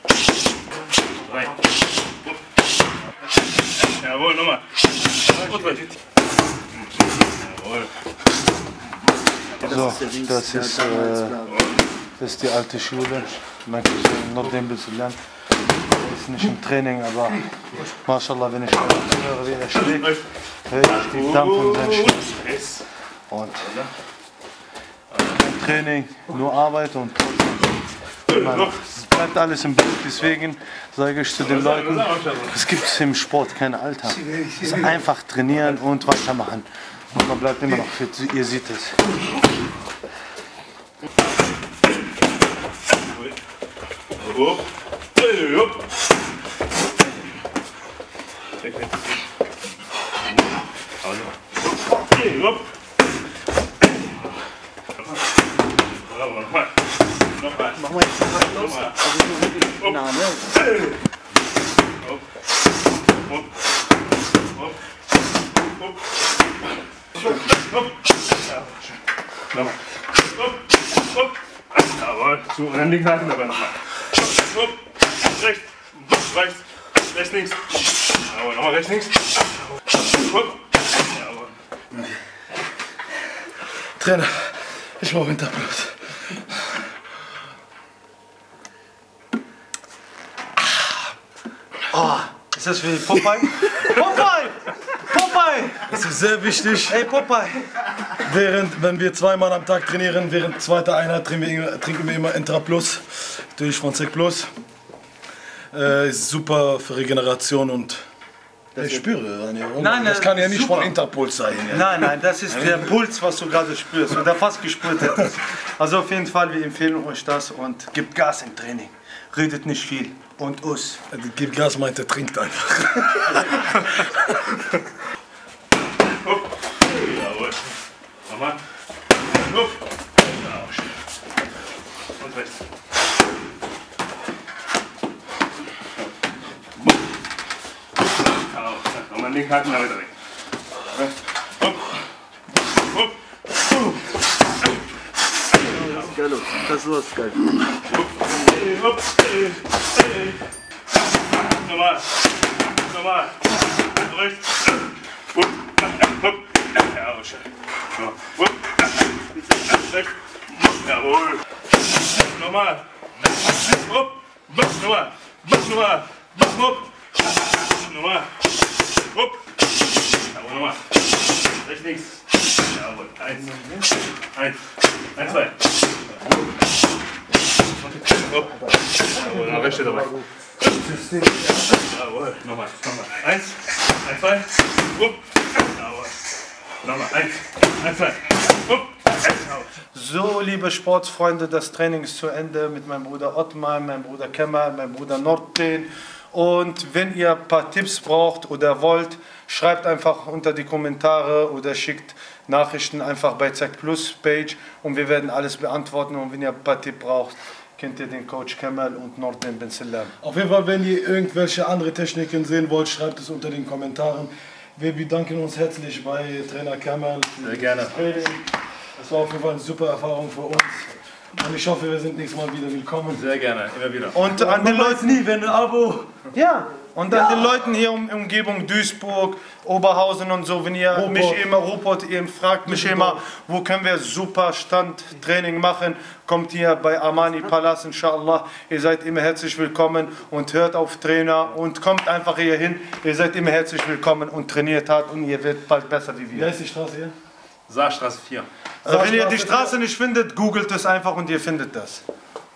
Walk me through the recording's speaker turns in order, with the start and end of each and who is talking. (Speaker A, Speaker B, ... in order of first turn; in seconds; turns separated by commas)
Speaker A: 1.3-1.6, Speaker A: 3.8-4.7, Speaker A: 5.2-5.9, Speaker A: 7.3-7.9, Speaker B: 9.6-11.4, Speaker C: 9.8-11.5, Speaker A: 11.5-11.7, Speaker B: 12.2-15.2, Speaker B: 15.9-22.2, Speaker A: 19.9-20.2, Speaker A: 20.9-22.8, Speaker B: 23.3-23.8, Speaker B: 25.3-27.7, Speaker B: 28.3-39.0, Speaker A: 28.3-28.7, Speaker A: 31.4-32.6, Speaker C: 34.3-34.7, Speaker A: 44.2-44.7, Speaker A: 45.2-45.8, Speaker A: 48.6-49.0, Speaker A: 51.0-51.3, Speaker A: 51.9-52.7, Speaker A: 55.9-56.8, Speaker A: 57.3-59.1, Speaker B: 57.8-60.4, Speaker A: 67.2-68.8, Speaker A: 69.5-69.8, Speaker A: 71.2-79.4, Speaker A: 80.3-81.5, Speaker D: 83.8-86.8, Speaker B: 91.9-96.0, Speaker D: 95.9-97.1, Speaker B: 96.9-97.6, Speaker D: 98.2-104.5, Speaker D: 105.7-108.0, Speaker D: 108.8-112.9, Speaker B: 109.8-111.0, Speaker B: 111.7-121.0, Speaker D: 121.1-124.3, Speaker A: 126.2-127.7, Speaker A: 128.3-128.6, Speaker A: 129.3-130.9, Speaker A: 132.2-132.6, Speaker A: 138.3-140.1, Speaker C: 145.7-147.4, Speaker A: 148.2-150.4, Speaker A: 151.4-152.2, Speaker A: 152.7-161.4, Speaker A: 162.0-169.5, Speaker A: 170.2-173.5, Speaker B: 173.3-173.8, Speaker A: 174.3-174.6, Speaker A: 175.2-175.6, Speaker A: 177.9-180.1, Speaker B: 180.9-181.3, Speaker A: 181.5-186.3, Speaker A: 186.8-189.7, Speaker B: 189.9-210.2, Speaker D: 210.2-218.4, Speaker A: 217.4-217.9, Speaker D: 219.0-223.2, Speaker A: 223.1-224.2, Speaker B: 224.1-225.3, Speaker D: 224.3-226.1, Speaker B: 226.3-246.5, Speaker D: 230.9-231.4, Speaker D: 232.7-233.2, Speaker D: 246.3-247.1, Speaker A: 247.7-248.5, Speaker B: 248.8-252.0, Speaker D: 248.8-249.8